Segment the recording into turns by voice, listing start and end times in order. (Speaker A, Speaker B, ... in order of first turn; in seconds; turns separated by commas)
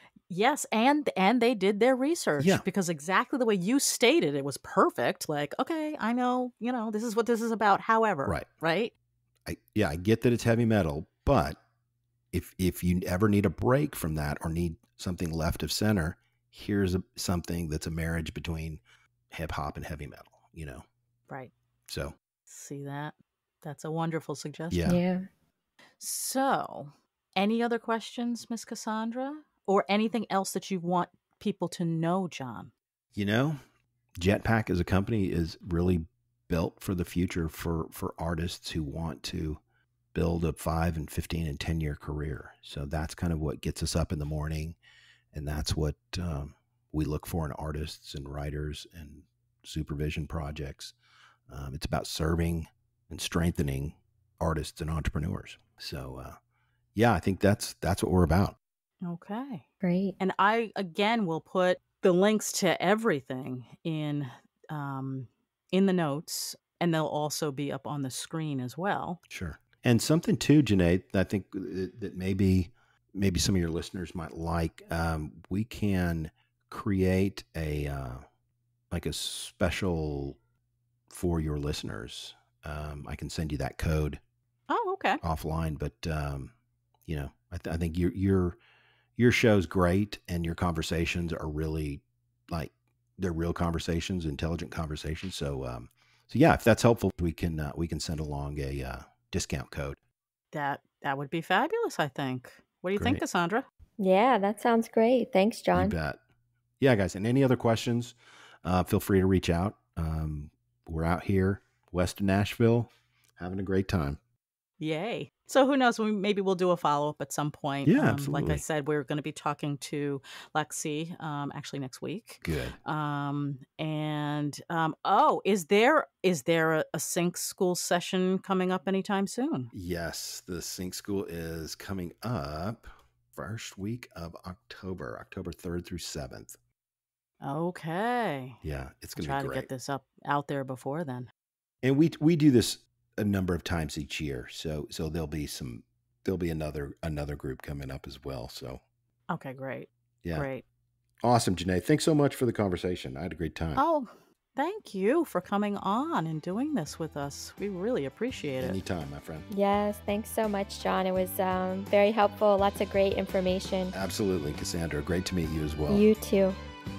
Speaker A: 0.3-8.9, Speaker B: 2.4-2.6, Speaker B: 9.5-11.6, Speaker B: 12.3-20.9, Speaker B: 21.9-22.2, Speaker A: 22.5-24.9, Speaker B: 24.7-25.0, Speaker C: 24.9-25.3, Speaker A: 26.0-32.7, Speaker B: 33.1-33.6, Speaker B: 34.2-39.6, Speaker B: 40.1-44.8, Speaker B: 45.3-51.0, Speaker B: 51.5-56.4, Speaker B: 57.0-58.6, Speaker A: 59.0-59.6, Speaker C: 59.8-60.2, Speaker A: 60.2-69.2, Speaker B: 69.3-78.2, Speaker B: 78.9-80.4, Speaker B: 81.1-84.2, Speaker A: 84.7-85.2, Speaker B: 85.2-86.5, Speaker B: 87.1-88.6, Speaker B: 89.2-100.0, Speaker A: 100.5-103.7, Speaker B: 103.0-103.2, Speaker C: 104.0-106.0, Speaker B: 105.8-106.2, Speaker B: 106.8-114.2, Speaker A: 114.8-129.7, Speaker B: 117.9-118.6, Speaker B: 122.4-122.8, Speaker B: 129.7-136.6, Speaker A: 137.4-138.6, Speaker B: 138.6-139.7, Speaker A: 139.2-141.3, Speaker B: 141.8-148.8, Speaker A: 149.3-150.6, Speaker B: 150.2-150.5, Speaker B: 151.2-153.8, Speaker A: 153.8-158.8, Speaker B: 158.6-159.5, Speaker C: 159.5-163.9, Speaker B: 163.9-166.1, Speaker C: 165.9-166.6